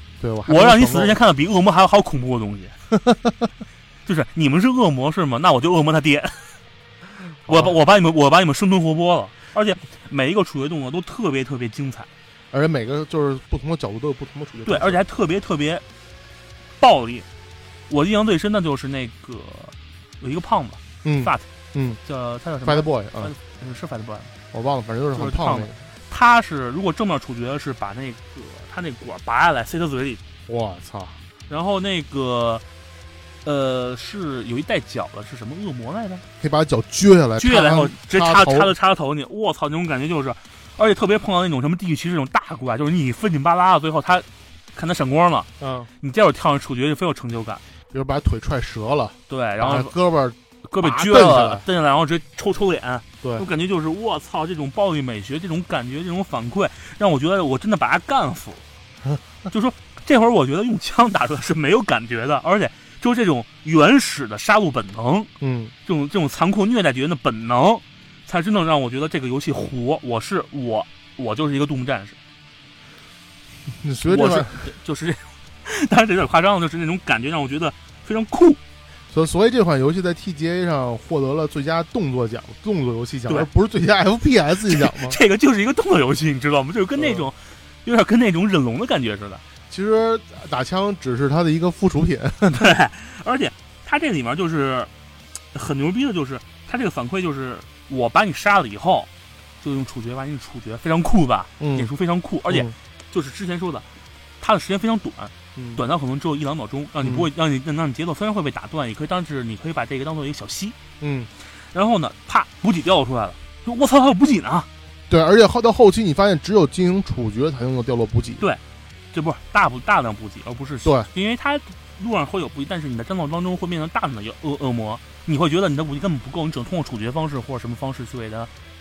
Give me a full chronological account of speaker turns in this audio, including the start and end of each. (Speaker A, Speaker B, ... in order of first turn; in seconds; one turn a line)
Speaker A: 0.2-1.1
Speaker B: 0.5-2.7
Speaker A: 2.9-3.5
Speaker B: 4.0-6.5
Speaker B: 7.5-12.1
Speaker A: 7.5-7.7
Speaker A: 12.5-15.0
Speaker B: 14.6-15.8
Speaker B: 16.8-17.3
Speaker B: 17.9-21.5
Speaker A: 21.0-22.0
Speaker B: 22.0-24.3
Speaker A: 22.6-23.3
Speaker A: 24.5-25.8
Speaker B: 25.1-30.2
Speaker A: 30.5-31.2
Speaker B: 31.5-32.6
Speaker B: 33.4-36.2
Speaker A: 36.4-38.7
Speaker B: 37.4-45.5
Speaker A: 45.6-45.9
Speaker B: 46.0-47.6
Speaker A: 47.9-51.6
Speaker B: 49.3-49.9
Speaker B: 50.6-58.6
Speaker B: 59.5-65.3
Speaker A: 65.4-65.7
Speaker B: 65.8-72.2
Speaker A: 73.8-74.6
Speaker B: 74.0-78.6
Speaker A: 79.1-85.2
Speaker B: 84.7-89.4
Speaker A: 87.0-87.3
Speaker A: 89.7-92.7
Speaker B: 92.5-94.9
Speaker B: 95.5-99.1
Speaker B: 99.6-103.8
Speaker A: 101.6-101.9
Speaker A: 102.5-102.7
Speaker B: 104.4-110.8
Speaker A: 105.5-105.8
Speaker A: 107.0-107.3
Speaker A: 111.0-111.3
Speaker B: 111.5-114.7
Speaker A: 115.1-118.4
Speaker B: 119.1-128.5
Speaker A: 120.8-121.1